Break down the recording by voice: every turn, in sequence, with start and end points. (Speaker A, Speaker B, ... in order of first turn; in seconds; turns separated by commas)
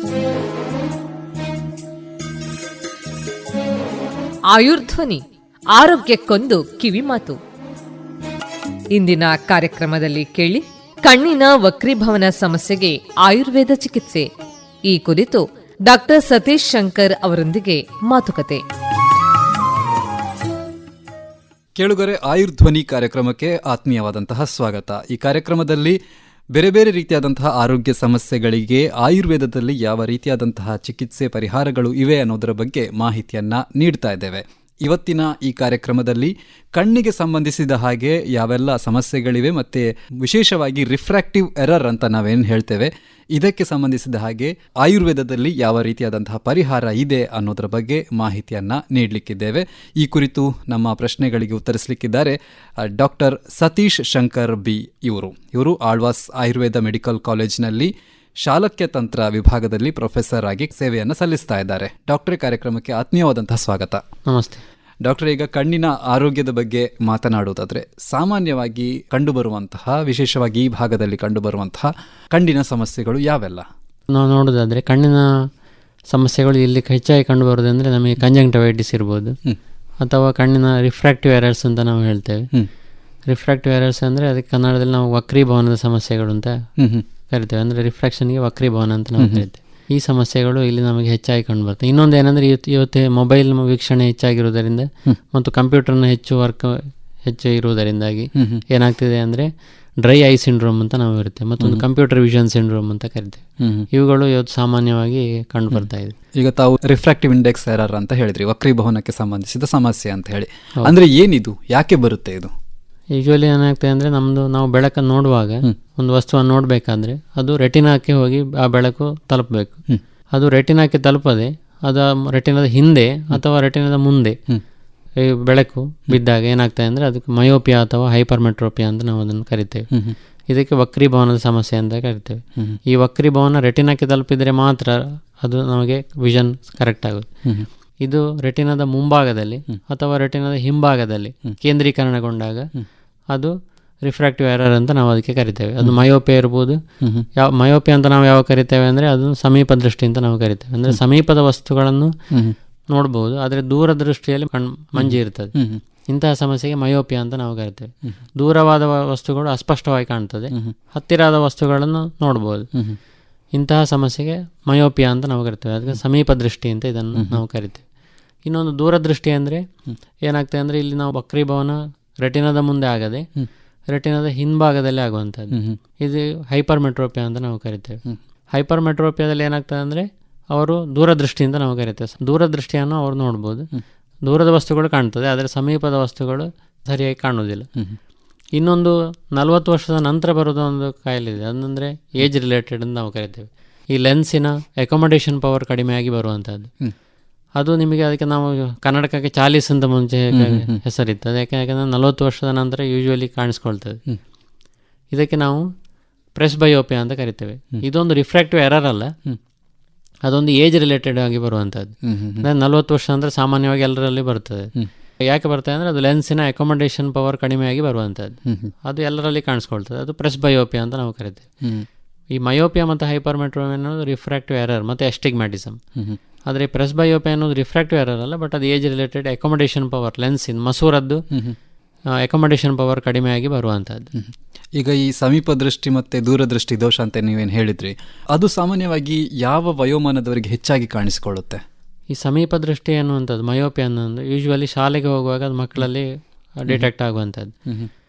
Speaker A: 4.5-7.4, Speaker A: 8.9-14.3, Speaker A: 14.9-18.6, Speaker B: 21.8-26.0, Speaker B: 26.5-57.9, Speaker B: 58.4-64.0, Speaker C: 64.3-64.6, Speaker B: 65.0-73.7, Speaker C: 74.1-75.3, Speaker C: 76.1-79.4, Speaker C: 80.0-82.5, Speaker C: 83.3-86.6, Speaker B: 86.8-87.0, Speaker C: 87.3-99.5, Speaker B: 89.2-89.4, Speaker B: 98.4-98.6, Speaker C: 100.0-106.2, Speaker B: 103.6-103.9, Speaker B: 106.4-112.5, Speaker C: 113.2-119.8, Speaker C: 120.3-124.4, Speaker C: 125.2-129.9, Speaker C: 130.5-137.3, Speaker C: 138.0-142.7, Speaker C: 143.3-146.8, Speaker C: 147.4-152.1, Speaker B: 152.3-152.6, Speaker C: 152.9-155.5, Speaker B: 155.0-155.8, Speaker C: 156.1-162.7, Speaker C: 163.5-167.8, Speaker B: 167.2-167.4, Speaker C: 168.4-169.7, Speaker C: 170.2-173.3, Speaker C: 173.9-178.0, Speaker B: 175.5-175.8, Speaker C: 178.5-183.7, Speaker C: 184.2-187.7, Speaker C: 188.6-196.7, Speaker C: 197.6-204.0, Speaker B: 200.3-200.8, Speaker C: 205.1-205.6, Speaker C: 206.3-209.2, Speaker C: 210.2-214.7, Speaker B: 212.0-212.5, Speaker C: 215.3-221.4, Speaker B: 218.5-218.7, Speaker C: 222.3-225.8, Speaker C: 226.5-231.2, Speaker B: 231.3-231.6, Speaker C: 232.2-234.1, Speaker B: 234.1-241.6, Speaker C: 242.1-246.1, Speaker C: 246.6-247.5